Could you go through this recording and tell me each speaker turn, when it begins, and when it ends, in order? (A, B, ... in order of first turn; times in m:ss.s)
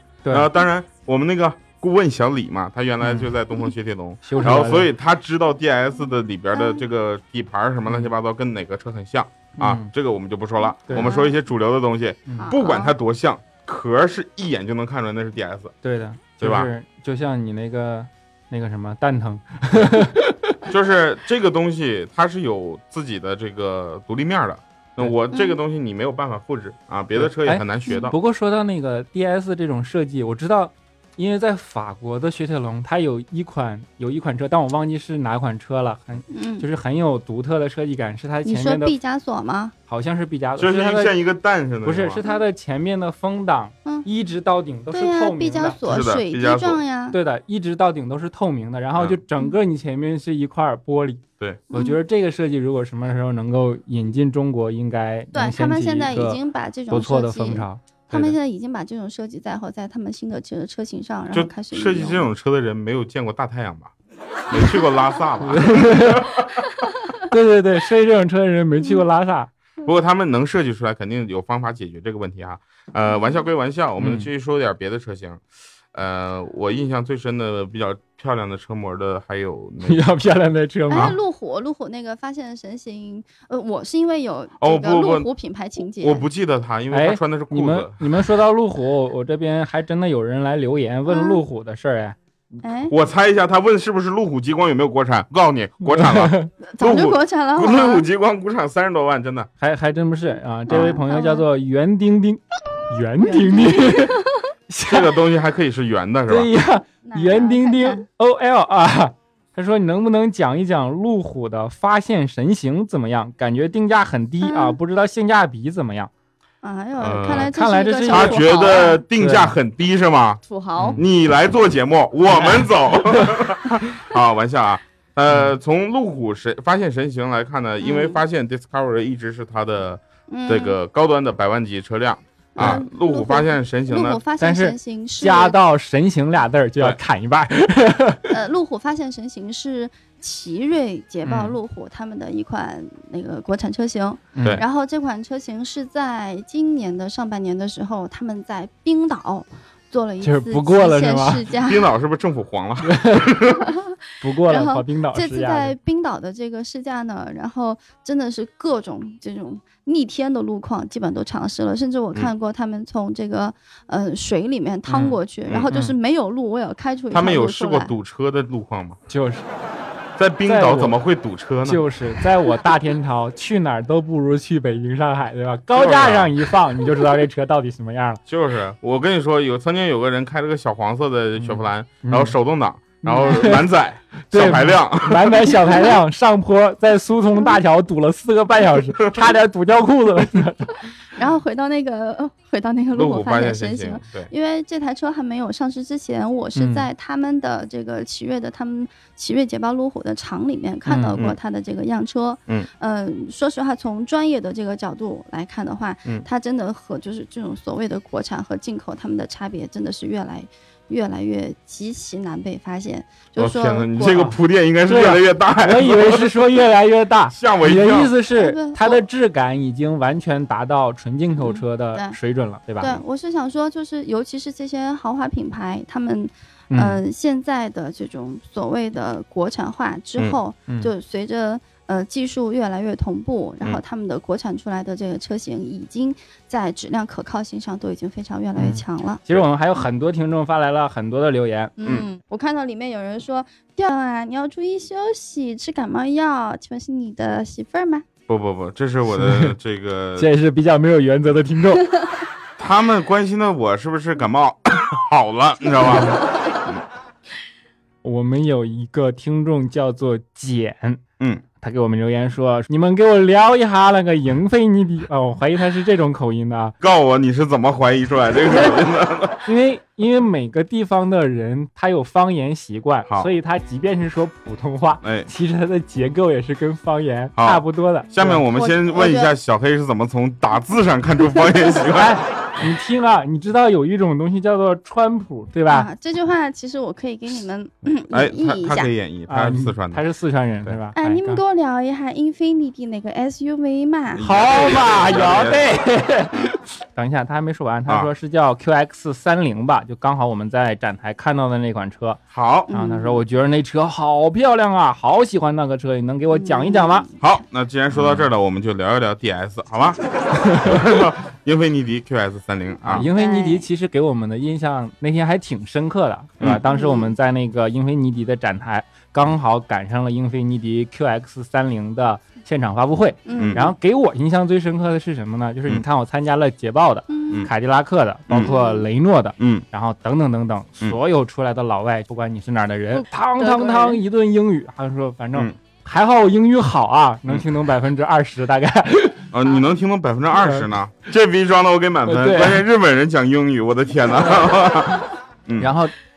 0:00.2-0:00.5 A
0:00.3-0:15.8 B
0:03.0-0:03.3 A
0:04.2-0:04.9 A
0:06.5-0:06.8 C
0:09.6-0:09.9 A
0:10.9-0:11.3 C
0:12.3-0:12.5 A
0:12.4-0:12.9 C
0:15.8-0:20.6 A
0:16.4-0:16.7 B
0:20.7-0:28.2 B
0:27.1-0:38.9 A
0:36.3-0:36.6 C
0:38.4-0:39.7 C
0:39.9-0:41.1 A
0:40.6-0:42.2 B
0:41.8-0:45.8 A
0:44.9-0:47.2 C
0:45.8-0:46.8 B
0:47.1-0:56.4 A
0:51.7-0:52.0 C
0:55.3-1:02.3 C
0:56.9-0:57.8 A
1:01.3-1:03.9 B
1:04.5-1:06.6 B
1:05.4-1:06.3 A
1:07.3-1:09.5 A
1:09.8-1:20.0 B
1:13.0-1:13.5 C
1:14.0-1:14.3 A
1:19.8-1:21.2 A
1:20.9-1:26.2 C
1:24.6-1:25.3 B
1:26.0-1:28.1 B
1:26.9-1:32.2 A
1:31.1-1:31.4 C
1:32.6-1:32.9 C
1:32.9-1:39.5 B
1:35.8-1:36.5 A
1:36.7-1:38.0 C
1:39.6-1:45.1 A
1:40.7-1:41.4 C
1:40.7-1:40.9 B
1:43.2-1:44.5 C
1:44.9-1:46.5 B
1:46.3-1:56.1 A
1:47.0-1:48.0 C
1:54.4-1:54.8 C
1:56.6-1:59.0 C
1:57.0-1:57.5 B
1:57.3-1:58.5 A
1:58.1-2:00.4 B
1:59.1-1:59.6 A
2:00.5-2:01.0 C
2:00.8-2:01.0 A
2:00.9-2:14.2 B
2:02.3-2:03.3 A
2:07.8-2:08.2 C
2:10.3-2:10.8 C
2:12.6-2:12.8 A
2:12.6-2:15.6 C
2:14.4-2:18.3 A
2:18.3-2:31.9 C
2:21.2-2:21.6 A
2:24.3-2:24.6 A
2:30.2-2:31.4 A
2:31.6-2:33.7 B
2:32.8-2:33.3 A
2:33.5-2:47.9 C
2:34.2-2:35.7 A
2:44.9-2:45.2 A
2:45.7-2:45.9 A
2:47.1-2:49.0 B
2:49.1-2:49.4 A
2:50.2-2:51.8 B
2:50.4-2:51.0 A
2:51.6-2:58.2 A
2:55.7-2:56.3 B
2:58.3-3:05.8 B
3:01.4-3:02.4 A
3:03.0-3:03.7 A
3:04.3-3:10.8 A
3:09.0-3:09.3 B
3:11.2-3:34.3 C
3:12.9-3:14.3 B
3:16.6-3:16.9 A
3:20.9-3:21.2 A
3:33.4-3:36.4 B
3:34.1-3:43.0 A
3:37.3-3:38.1 B
3:38.3-3:39.0 C
3:41.4-3:42.2 C
3:42.8-3:59.2 C
3:46.7-3:47.0 A
3:58.6-4:01.7 A
4:01.8-4:08.0 C
4:08.3-4:10.3 B
4:09.1-4:09.5 A
4:10.2-4:11.9 A
4:12.6-4:16.8 B
4:18.0-4:21.0 A
4:21.6-4:26.7 A
4:26.8-4:29.4 B
4:29.4-4:38.4 A
4:35.0-4:35.3 B
4:37.4-4:42.2 B
4:38.5-4:39.3 C
4:41.9-4:45.9 A
4:45.7-4:48.9 C
4:48.1-4:50.0 B
4:49.3-4:51.4 A
4:51.0-4:54.3 C
4:54.1-4:55.8 B
4:54.2-5:07.0 A
5:02.3-5:02.7 B
5:02.7-5:03.2 C
5:06.3-5:07.3 C
5:07.2-5:10.0 B
5:07.9-5:08.3 A
5:10.3-5:10.8 A
5:10.6-5:13.1 B
5:12.8-5:39.3 A
5:12.9-5:13.7 C
5:16.6-5:17.1 C
5:23.2-5:23.7 C
5:23.4-5:23.7 B
5:27.1-5:27.5 C
5:28.3-5:28.5 B
5:28.4-5:28.8 C
5:29.4-5:29.6 B
5:32.9-5:34.0 C
5:39.3-5:45.7 B
5:40.3-5:40.7 A
5:42.0-5:42.6 A
5:45.6-5:45.9 A